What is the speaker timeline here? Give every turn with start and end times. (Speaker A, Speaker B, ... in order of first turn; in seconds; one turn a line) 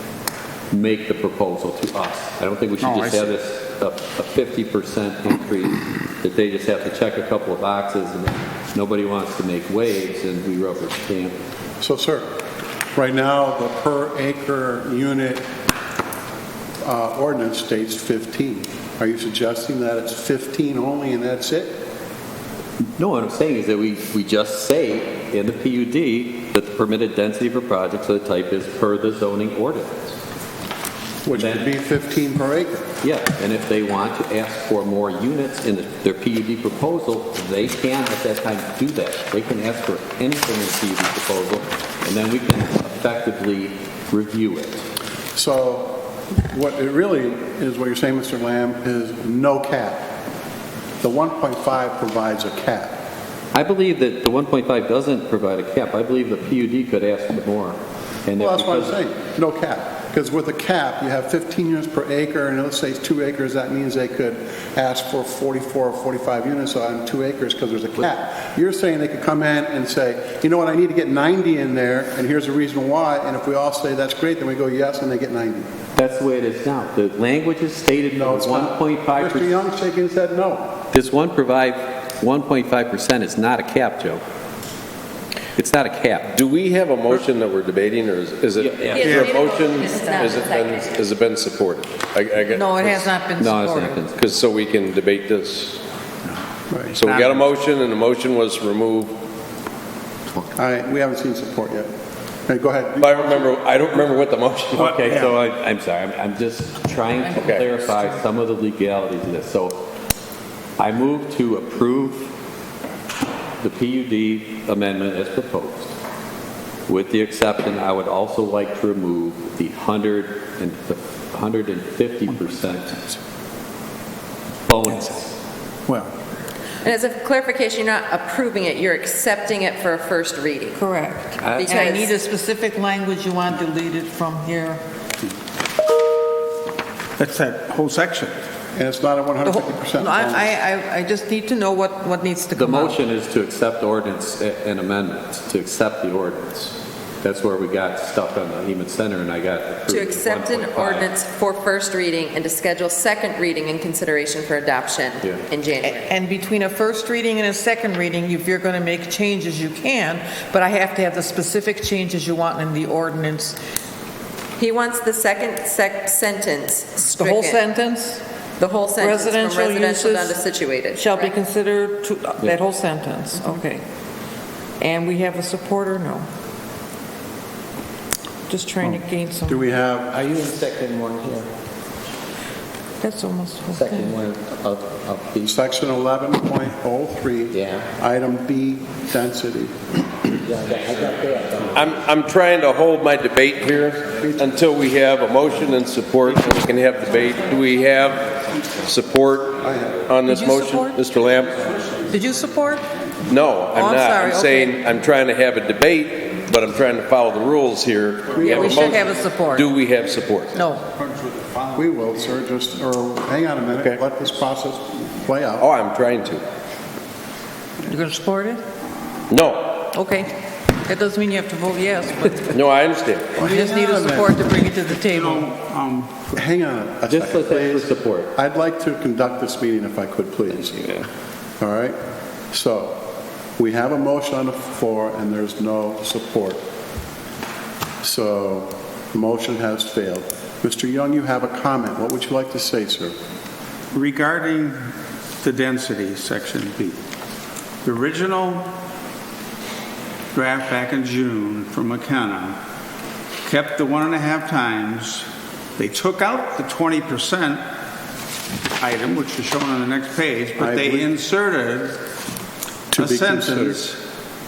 Speaker A: 0.7-11.4
Speaker B: 2.8-3.3
Speaker C: 11.8-12.3
Speaker C: 12.9-15.4
Speaker C: 16.8-21.8
Speaker A: 23.0-30.2
Speaker C: 31.2-32.9
Speaker A: 31.3-31.7
Speaker A: 33.0-44.8
Speaker C: 45.3-50.1
Speaker C: 51.0-53.0
Speaker A: 53.5-59.0
Speaker C: 58.4-75.7
Speaker A: 76.0-79.5
Speaker C: 78.2-80.8
Speaker A: 80.9-84.2
Speaker A: 85.5-86.3
Speaker D: 86.2-93.1
Speaker A: 88.6-89.2
Speaker E: 88.9-91.0
Speaker B: 89.0-89.4
Speaker F: 92.5-94.0
Speaker A: 93.4-94.2
Speaker D: 94.2-95.8
Speaker C: 96.7-97.0
Speaker B: 96.9-97.5
Speaker D: 97.0-99.1
Speaker C: 100.4-101.9
Speaker C: 102.5-103.5
Speaker D: 103.0-105.0
Speaker B: 104.7-105.4
Speaker A: 104.9-109.8
Speaker D: 107.3-107.9
Speaker A: 110.8-112.3
Speaker A: 113.6-115.9
Speaker A: 116.9-123.0
Speaker A: 124.7-125.3
Speaker B: 125.9-126.1
Speaker E: 126.8-130.8
Speaker F: 130.7-134.8
Speaker A: 131.4-131.7
Speaker E: 131.6-132.1
Speaker B: 137.2-138.3
Speaker C: 138.7-140.5
Speaker F: 139.4-143.0
Speaker A: 142.5-151.1
Speaker E: 149.9-156.1
Speaker F: 155.8-163.6
Speaker E: 164.6-167.6
Speaker F: 167.0-168.2
Speaker E: 168.6-171.3
Speaker F: 169.0-170.4
Speaker F: 170.9-173.8
Speaker F: 174.8-176.2
Speaker F: 178.5-179.7
Speaker C: 178.8-180.2
Speaker G: 180.2-181.5
Speaker F: 183.0-184.2
Speaker G: 183.7-185.2
Speaker C: 185.4-190.0
Speaker G: 191.0-191.6
Speaker D: 191.7-201.6
Speaker C: 194.2-194.6
Speaker C: 199.6-200.1
Speaker F: 200.2-201.0
Speaker B: 201.7-202.0
Speaker F: 202.1-202.8
Speaker D: 203.2-210.5
Speaker F: 203.7-204.8
Speaker C: 208.3-209.1
Speaker F: 208.4-209.7
Speaker F: 210.5-210.8
Speaker B: 210.9-212.0
Speaker C: 211.7-215.7
Speaker D: 213.7-214.0
Speaker D: 215.6-216.4
Speaker F: 217.8-218.6
Speaker D: 219.3-219.8
Speaker F: 219.9-222.6
Speaker D: 222.5-223.4
Speaker C: 223.3-224.4
Speaker F: 223.4-225.5
Speaker B: 225.0-226.2
Speaker C: 226.3-231.0
Speaker A: 227.1-228.3
Speaker C: 231.6-231.9
Speaker C: 232.5-233.0
Speaker C: 233.6-236.6
Speaker C: 238.0-243.1
Speaker B: 243.9-247.0
Speaker B: 247.8-248.7
Speaker B: 250.3-252.6
Speaker B: 253.4-257.6
Speaker B: 258.8-262.0
Speaker C: 260.6-261.1
Speaker C: 262.9-263.8
Speaker B: 262.9-264.0